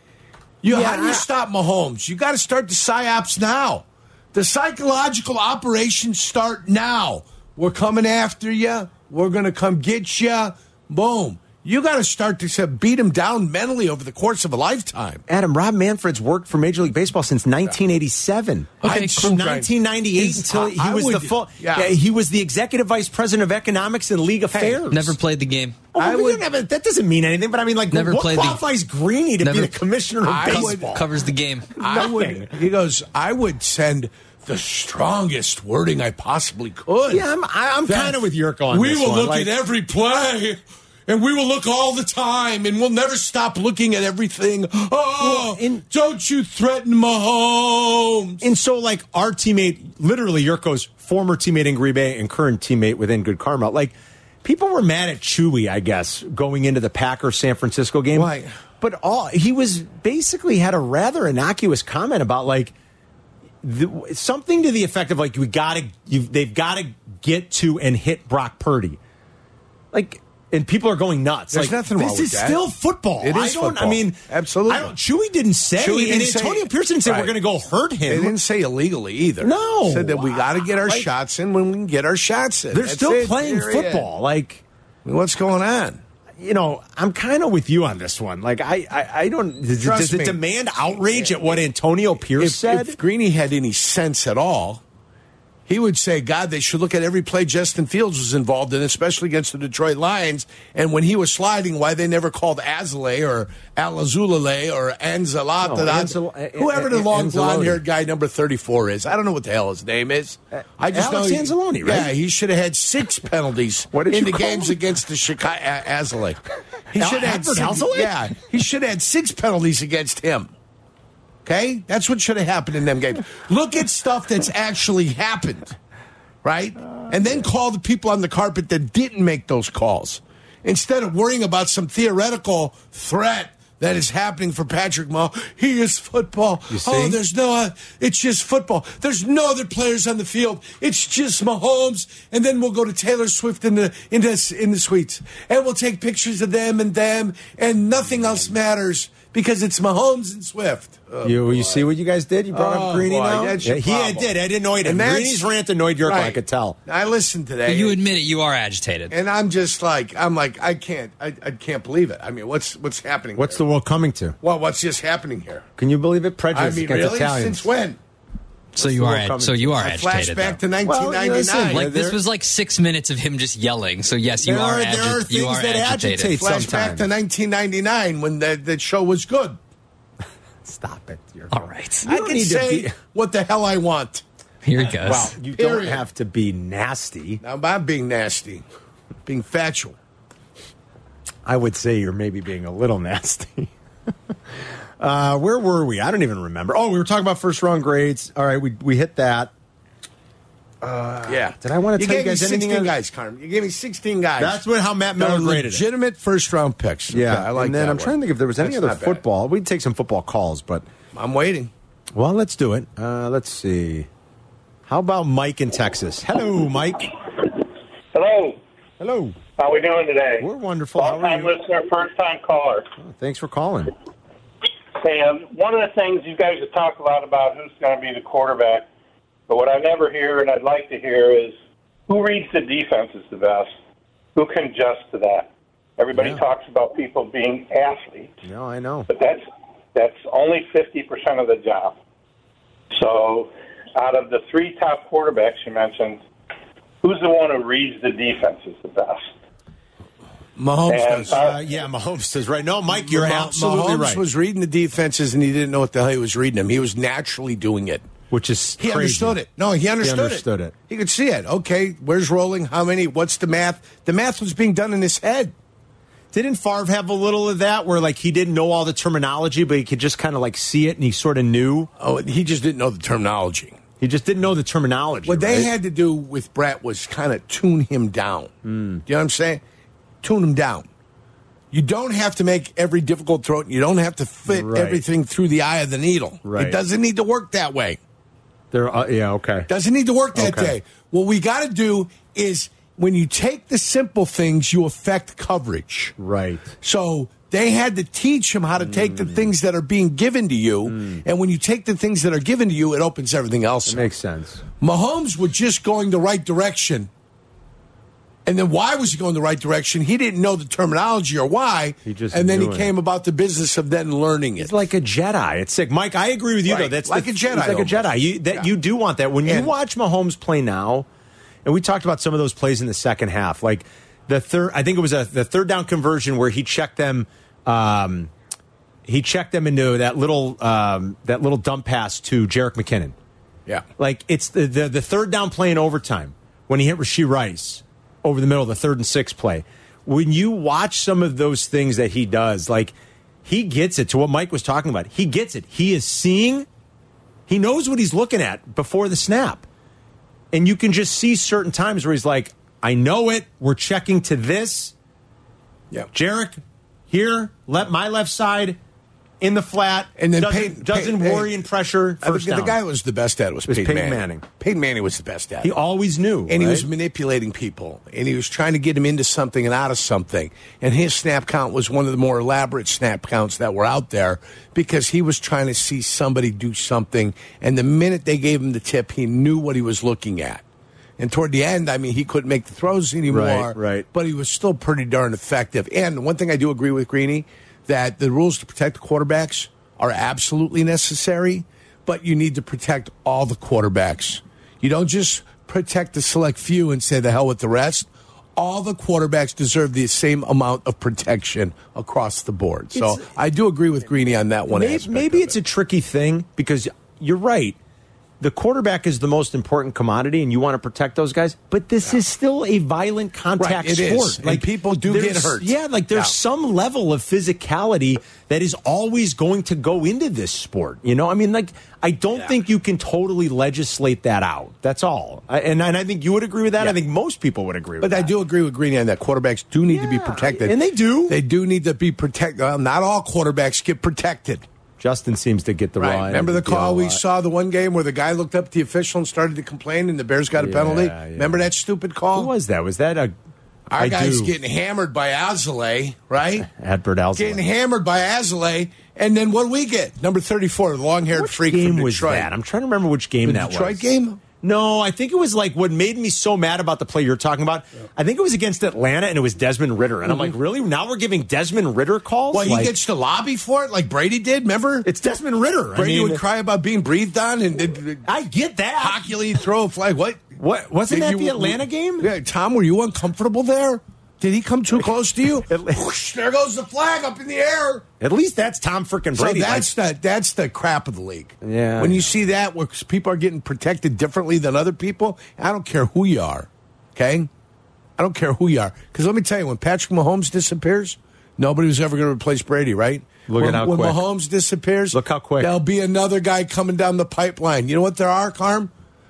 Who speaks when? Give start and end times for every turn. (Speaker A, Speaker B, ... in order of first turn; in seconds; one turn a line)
Speaker A: 0.6-15.2
Speaker B: 0.7-1.2
Speaker B: 15.3-25.2
Speaker C: 18.8-19.3
Speaker A: 18.8-21.9
Speaker C: 24.9-25.8
Speaker B: 25.9-31.1
Speaker A: 25.9-26.4
Speaker C: 27.9-28.6
Speaker C: 29.4-29.7
Speaker A: 30.2-30.9
Speaker C: 30.4-31.7
Speaker A: 31.8-37.2
Speaker B: 31.8-32.5
Speaker B: 37.1-39.5
Speaker A: 37.9-38.2
Speaker A: 38.7-48.4
Speaker B: 45.2-45.8
Speaker B: 48.4-62.7
Speaker A: 58.1-58.5
Speaker B: 63.6-69.0
Speaker B: 69.9-78.3
Speaker A: 71.5-72.6
Speaker A: 73.2-74.9
Speaker A: 75.8-77.3
Speaker A: 78.1-84.1
Speaker B: 79.4-81.1
Speaker B: 82.7-84.6
Speaker A: 85.0-86.0
Speaker B: 86.4-93.0
Speaker A: 89.8-90.4
Speaker A: 91.1-91.6
Speaker A: 92.3-94.8
Speaker A: 95.7-116.4
Speaker B: 105.6-107.8
Speaker B: 110.6-112.1
Speaker B: 113.9-114.8
Speaker A: 116.9-120.5
Speaker B: 116.9-118.3
Speaker A: 121.4-125.7
Speaker A: 126.4-151.8
Speaker B: 127.0-127.5
Speaker B: 136.7-137.2
Speaker B: 148.1-148.5
Speaker B: 151.2-156.8
Speaker A: 152.5-155.4
Speaker A: 156.0-158.0
Speaker C: 157.7-159.1
Speaker A: 159.1-163.6
Speaker B: 163.3-164.4
Speaker A: 164.4-165.7
Speaker B: 165.8-167.7
Speaker A: 166.5-168.0
Speaker C: 168.7-170.6
Speaker B: 168.8-169.9
Speaker A: 169.8-171.8
Speaker B: 170.8-172.2
Speaker C: 171.7-176.4
Speaker B: 174.4-177.1
Speaker A: 176.3-179.6
Speaker B: 180.6-182.9
Speaker C: 181.5-182.1
Speaker A: 182.0-184.2
Speaker C: 184.6-185.3
Speaker B: 184.9-187.4
Speaker A: 185.5-186.0
Speaker A: 187.4-188.6
Speaker A: 189.2-189.9
Speaker B: 191.4-193.7
Speaker B: 195.0-199.5
Speaker B: 200.8-202.9
Speaker A: 201.2-204.6
Speaker B: 204.4-205.8
Speaker A: 205.2-209.2
Speaker B: 207.1-210.9
Speaker A: 211.1-211.7
Speaker B: 212.1-214.1
Speaker B: 214.9-217.1
Speaker D: 218.1-218.6
Speaker B: 219.0-219.4
Speaker D: 219.6-222.8
Speaker B: 220.4-221.5
Speaker B: 223.0-223.9
Speaker D: 225.0-228.9
Speaker D: 229.5-231.6
Speaker D: 232.1-233.7
Speaker D: 234.3-238.3
Speaker B: 236.1-236.4
Speaker B: 238.4-239.1
Speaker D: 239.1-241.9
Speaker D: 242.9-246.2
Speaker D: 247.0-249.3
Speaker A: 250.6-251.3
Speaker D: 250.9-251.6
Speaker B: 251.3-254.2
Speaker A: 252.9-258.1
Speaker B: 258.3-259.4
Speaker A: 258.8-265.5
Speaker B: 260.0-260.7
Speaker B: 266.3-271.9
Speaker A: 272.0-273.8
Speaker B: 274.0-275.7
Speaker A: 275.2-278.5
Speaker B: 278.6-279.0
Speaker A: 279.1-279.6
Speaker A: 280.2-280.9
Speaker A: 281.7-288.0
Speaker B: 284.5-285.0
Speaker B: 286.4-286.8
Speaker B: 288.7-289.7
Speaker A: 289.7-296.1
Speaker B: 290.3-290.8
Speaker B: 296.2-296.8
Speaker A: 296.8-304.1
Speaker B: 298.8-299.5
Speaker B: 300.8-301.2
Speaker B: 303.9-304.6
Speaker A: 304.8-307.1
Speaker A: 308.4-314.7
Speaker B: 312.0-312.9
Speaker B: 314.6-321.1
Speaker A: 316.6-318.7
Speaker A: 319.4-319.7
Speaker B: 321.6-328.3
Speaker B: 329.1-333.1
Speaker B: 334.0-346.7
Speaker B: 347.5-349.6
Speaker B: 350.5-354.9
Speaker B: 356.1-358.8
Speaker B: 359.4-362.8
Speaker A: 360.2-361.5
Speaker A: 362.2-365.7
Speaker B: 363.7-364.4
Speaker B: 365.6-366.9
Speaker A: 366.5-380.6
Speaker A: 381.2-405.6
Speaker B: 383.3-384.1
Speaker B: 402.9-403.3
Speaker B: 404.7-407.8
Speaker B: 408.4-428.3
Speaker A: 413.6-416.3
Speaker A: 428.0-430.8
Speaker B: 429.9-431.4
Speaker A: 431.3-434.6
Speaker B: 435.0-437.2
Speaker A: 436.0-442.5
Speaker B: 440.5-441.7
Speaker B: 442.3-443.3
Speaker A: 443.9-446.7
Speaker B: 444.0-444.5
Speaker B: 446.6-447.6
Speaker A: 447.4-452.5
Speaker B: 451.3-454.1
Speaker A: 453.4-454.4
Speaker B: 454.6-462.9
Speaker A: 462.5-465.1
Speaker B: 465.0-466.4
Speaker A: 465.9-468.2
Speaker B: 468.2-469.3
Speaker A: 469.0-470.5
Speaker B: 470.6-472.3
Speaker A: 471.1-478.1
Speaker B: 475.6-476.0
Speaker B: 478.2-479.9
Speaker A: 479.4-487.5
Speaker B: 481.6-482.4
Speaker A: 488.2-498.9
Speaker B: 493.5-494.2
Speaker B: 495.1-495.7